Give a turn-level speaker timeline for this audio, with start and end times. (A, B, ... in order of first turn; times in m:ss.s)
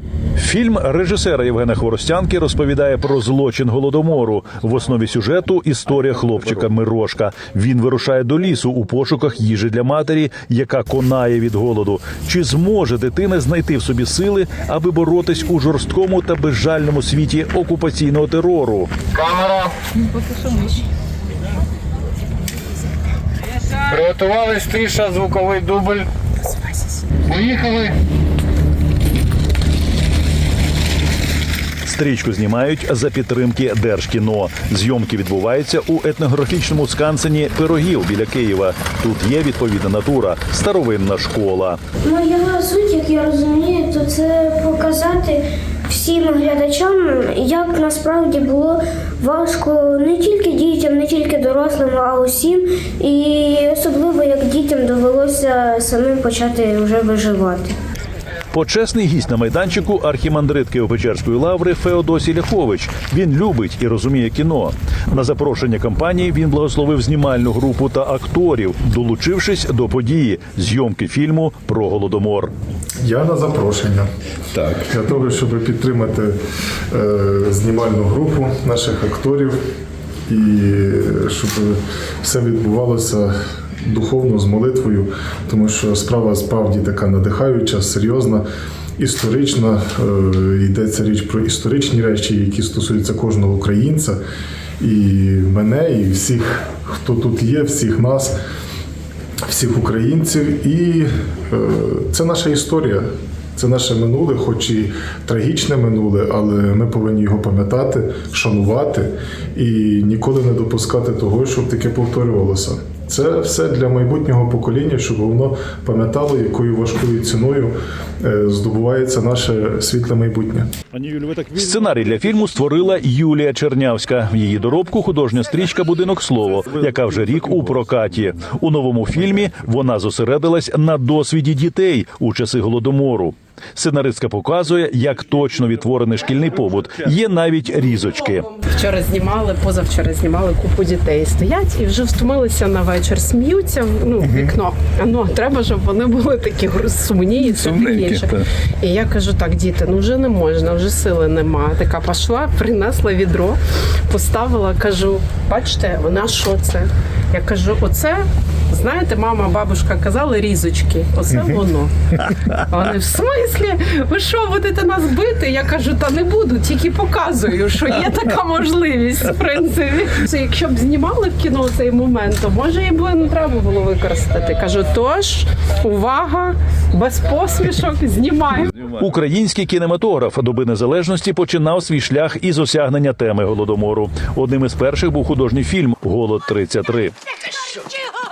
0:00.4-0:18.9 A
0:19.1-0:19.7 B
0:23.9-0:26.1 B
0:27.3-0:27.9 B
0:31.8-0:41.8 A
0:42.0-0:57.8 C
0:58.5-1:12.5 A
1:13.0-1:14.0 D
1:14.6-1:16.3 D
1:16.9-1:19.6 D
1:20.3-1:28.4 D
1:29.0-1:34.2 D
1:34.8-1:38.3 D
1:39.4-2:00.7 D
2:00.9-2:18.4 A
2:18.6-2:33.6 E
2:34.1-2:58.7 E
2:58.7-3:07.1 A